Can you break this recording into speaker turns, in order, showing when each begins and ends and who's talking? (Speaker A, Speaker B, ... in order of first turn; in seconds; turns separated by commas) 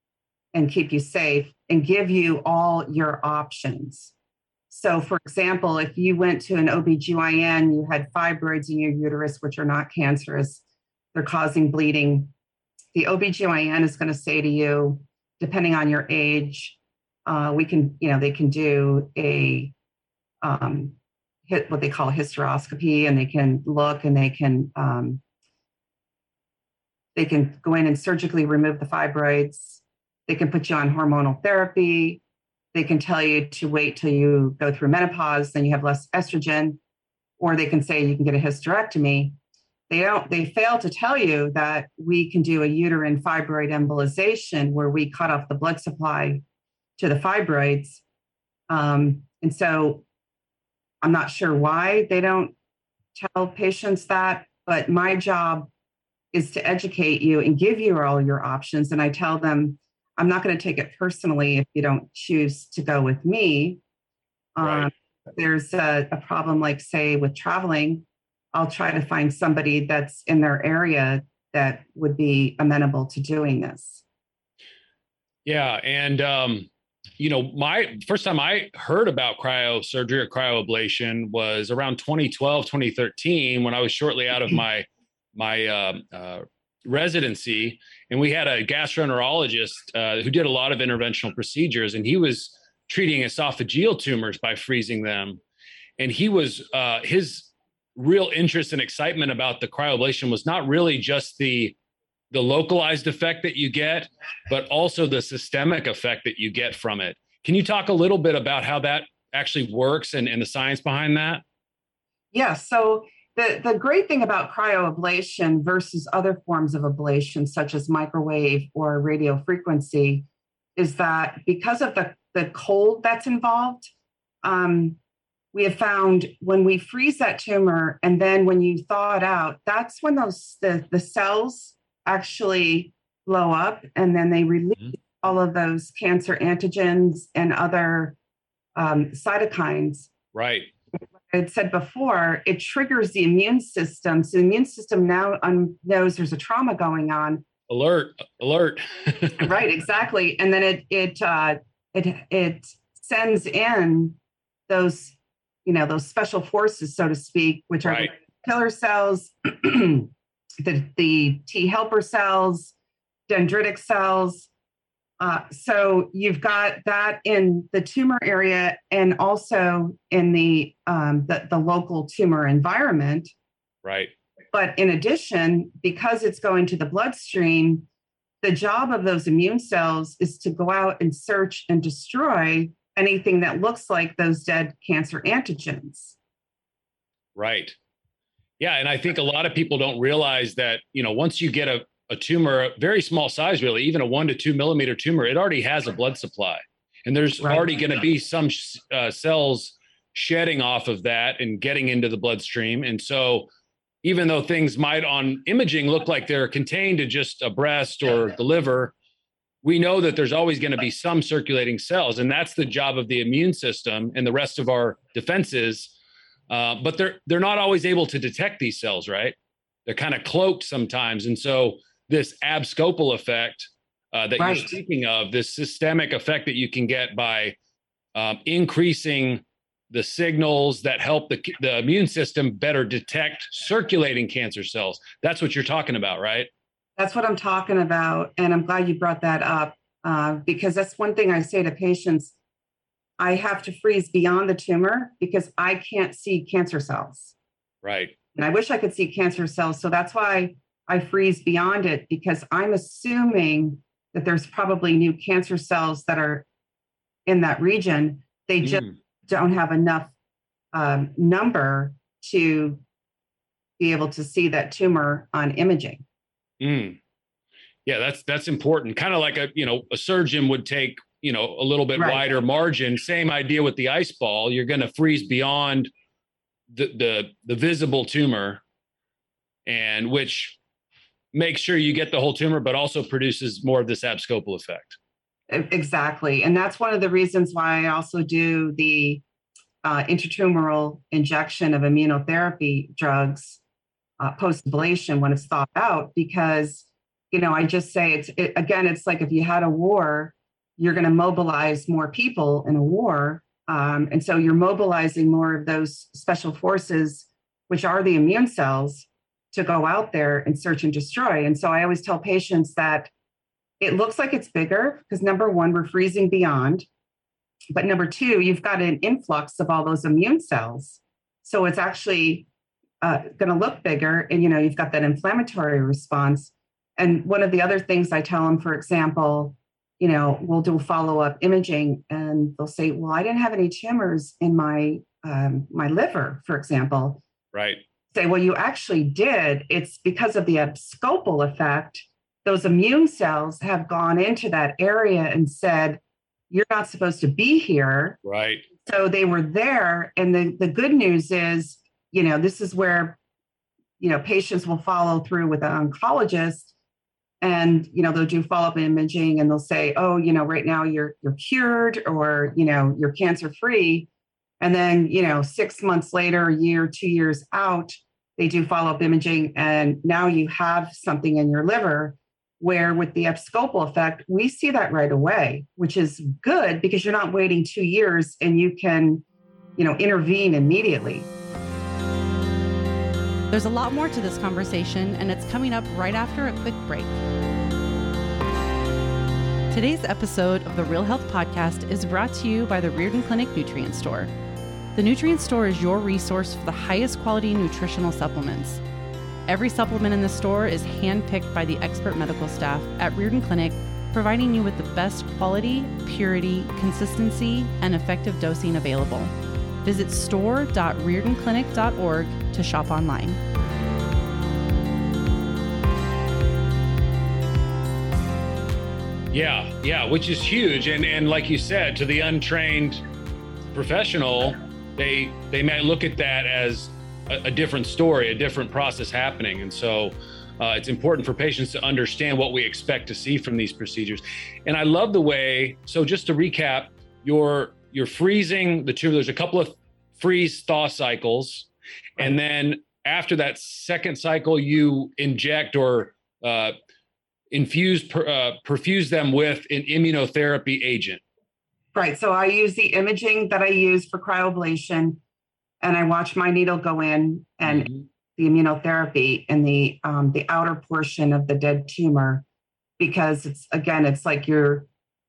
Speaker A: 0.5-4.1, Speaker A: 4.7-10.6, Speaker A: 11.1-12.3, Speaker A: 12.9-19.7, Speaker A: 20.4-20.9, Speaker A: 21.5-25.2, Speaker A: 27.1-32.2, Speaker A: 32.7-36.8, Speaker A: 37.4-39.4, Speaker A: 39.9-46.4, Speaker A: 47.0-48.0, Speaker A: 48.7-50.0, Speaker A: 51.0-52.5, Speaker A: 53.1-55.7, Speaker A: 56.3-63.8, Speaker A: 64.5-74.0, Speaker B: 64.6-64.9, Speaker B: 75.4-95.4, Speaker B: 96.0-101.8, Speaker B: 102.3-111.4, Speaker A: 112.3-123.9, Speaker A: 124.4-125.0, Speaker A: 125.5-138.2, Speaker A: 138.8-140.1, Speaker B: 140.3-140.7, Speaker A: 141.3-147.4, Speaker B: 147.7-149.5, Speaker A: 149.4-154.2, Speaker A: 154.7-162.7, Speaker B: 157.8-158.1, Speaker A: 163.3-164.5, Speaker A: 165.2-173.3, Speaker B: 173.8-174.1, Speaker A: 174.5-177.8, Speaker A: 178.4-186.2, Speaker B: 187.3-187.8, Speaker B: 188.6-203.5, Speaker B: 204.0-208.9, Speaker B: 209.6-215.9, Speaker B: 216.5-227.6, Speaker A: 224.4-224.7, Speaker B: 228.1-236.5, Speaker A: 237.0-242.3, Speaker A: 243.2-247.3, Speaker B: 247.8-248.2, Speaker A: 248.3-256.4, Speaker A: 257.2-260.1, Speaker B: 258.6-258.9, Speaker A: 260.7-262.8, Speaker A: 263.8-266.0, Speaker B: 266.6-267.0, Speaker B: 267.9-275.9, Speaker A: 271.9-272.2, Speaker B: 276.7-278.6, Speaker B: 279.6-280.6, Speaker B: 281.3-285.0, Speaker A: 285.5-289.2, Speaker A: 289.8-293.6, Speaker A: 294.2-313.1, Speaker A: 313.8-316.9, Speaker A: 317.7-322.5, Speaker A: 323.0-337.2, Speaker B: 337.5-337.8, Speaker A: 338.1-346.0, Speaker A: 346.5-348.2, Speaker B: 348.2-348.6, Speaker A: 348.8-353.2, Speaker A: 354.0-356.7, Speaker A: 357.4-364.1, Speaker A: 364.6-379.2, Speaker A: 379.8-381.3, Speaker C: 383.5-387.2, Speaker C: 389.7-394.3, Speaker C: 394.9-398.8, Speaker C: 399.5-413.4, Speaker B: 419.3-423.0, Speaker B: 423.7-446.7, Speaker B: 447.5-451.2, Speaker A: 451.9-455.2, Speaker A: 455.8-462.4, Speaker B: 457.6-458.0, Speaker A: 463.0-464.9